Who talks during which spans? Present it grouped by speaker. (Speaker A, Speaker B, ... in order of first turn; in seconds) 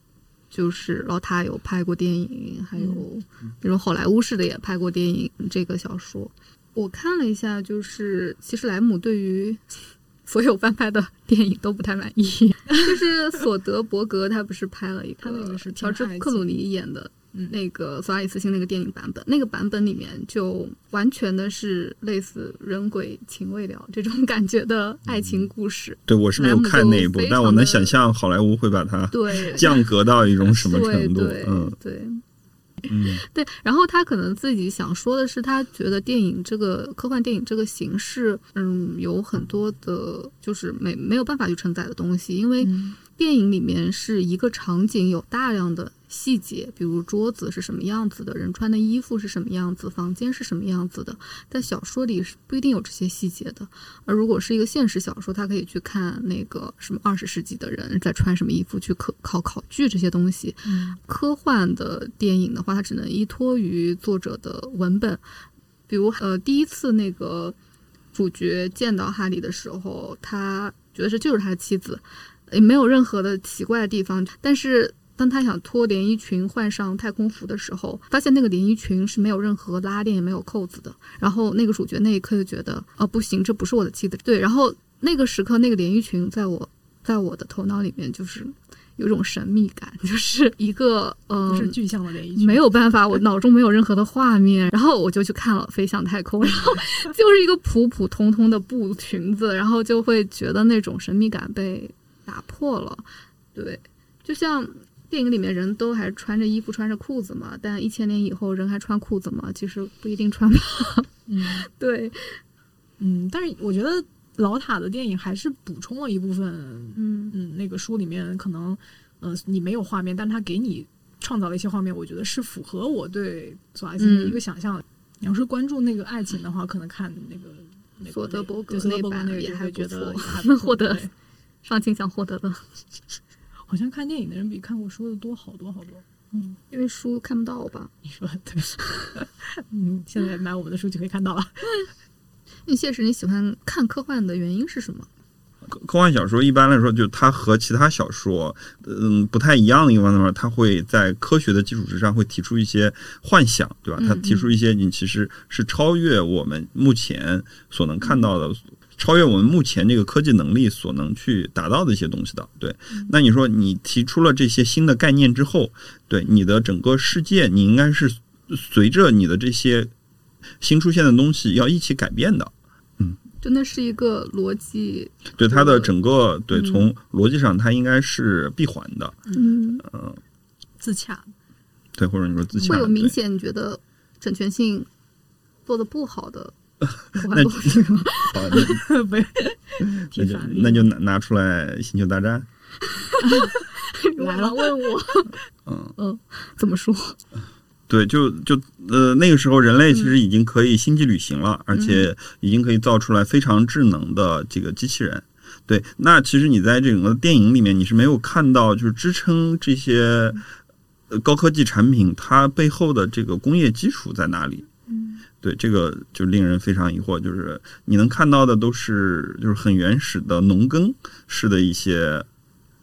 Speaker A: 0.5-27.9, 29.1-29.9, 30.5-32.2, 32.9-65.2, 65.9-67.5, 68.1-91.8, 92.3-112.4, 117.0-117.3, 124.0-124.4, 128.1-131.1, 131.6-132.7, 136.7-137.9, 142.7-145.1, 154.0-154.5, 173.4-175.9, 176.5-176.9, 179.3-179.8, 182.6-184.9, 185.7-186.6, 187.1-188.8, 193.1-195.3, 195.9-197.2, 199.9-200.2, 201.7-202.1
Speaker B: 15.2-16.6, 42.6-43.0, 60.6-61.0, 91.5-92.7, 111.3-111.7, 113.0-131.1, 133.7-136.6, 138.0-141.9, 180.8-181.3, 188.5-190.9, 194.2-195.0, 214.9-215.2
Speaker C: 25.1-25.4, 26.1-31.7, 32.9-33.2, 145.6-169.9, 170.6-173.2, 175.3-179.2, 179.8-180.2, 181.9-183.2, 187.2-188.8, 190.0-192.5, 195.7-195.9, 197.9-210.4, 211.1-214.7, 215.4-222.2